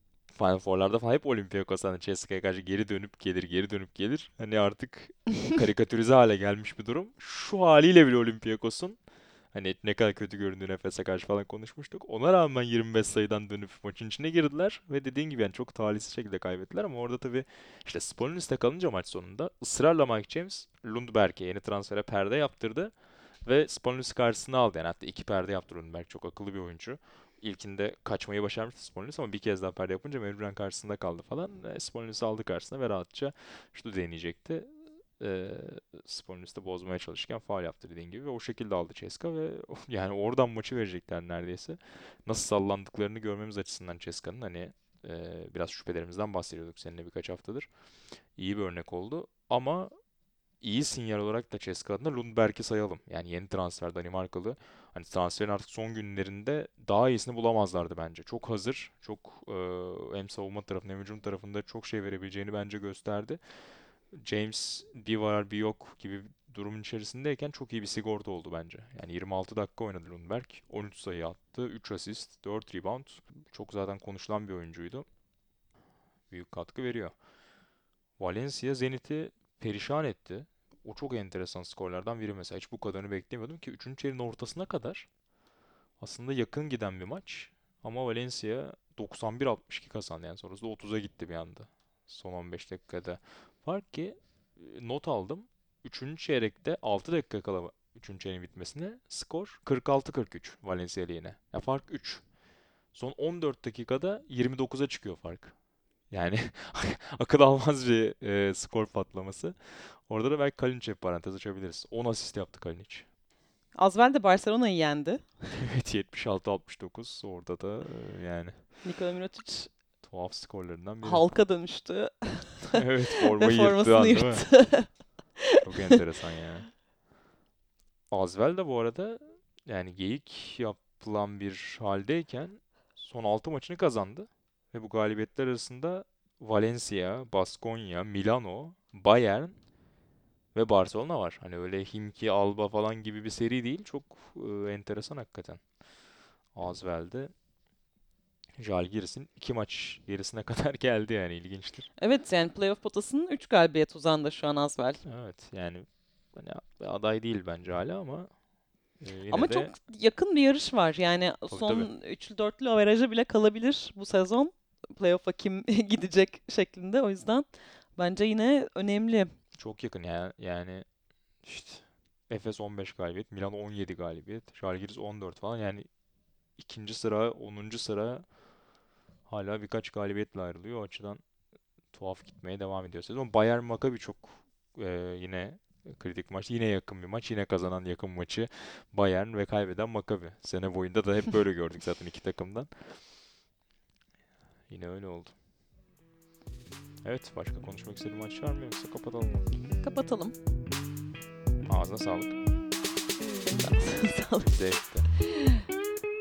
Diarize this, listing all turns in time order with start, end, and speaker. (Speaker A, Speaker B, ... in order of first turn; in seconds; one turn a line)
Speaker A: 0.3-9.0
Speaker A: 9.5-22.9
Speaker A: 23.4-47.7
Speaker A: 48.4-49.9
Speaker A: 50.6-63.4
Speaker A: 64.1-75.0
Speaker A: 76.3-77.1
Speaker A: 78.2-85.1
Speaker A: 86.0-102.2
Speaker A: 102.9-105.5
Speaker A: 106.1-113.1
Speaker B: 113.7-115.3
Speaker A: 115.5-118.6
Speaker B: 118.8-119.7
Speaker A: 120.0-121.2
Speaker B: 121.0-126.0
Speaker A: 122.7-124.6
Speaker A: 125.6-126.7
Speaker A: 128.1-139.6
Speaker A: 140.5-145.6
Speaker A: 146.5-147.3
Speaker A: 148.6-151.9
Speaker B: 152.0-155.0
Speaker A: 155.0-158.3
Speaker A: 159.0-159.7
Speaker B: 159.3-169.3
Speaker A: 161.5-161.9
Speaker A: 169.6-170.8
Speaker A: 171.4-175.9
Speaker A: 176.6-178.2
Speaker A: 179.3-181.2
Speaker A: 181.9-192.9
Speaker A: 194.7-195.3
Speaker A: 197.0-199.7
Speaker B: 199.8-200.3
Speaker A: 201.7-202.4
Speaker B: 203.2-204.6
Speaker A: 204.4-205.1
Speaker B: 205.1-205.6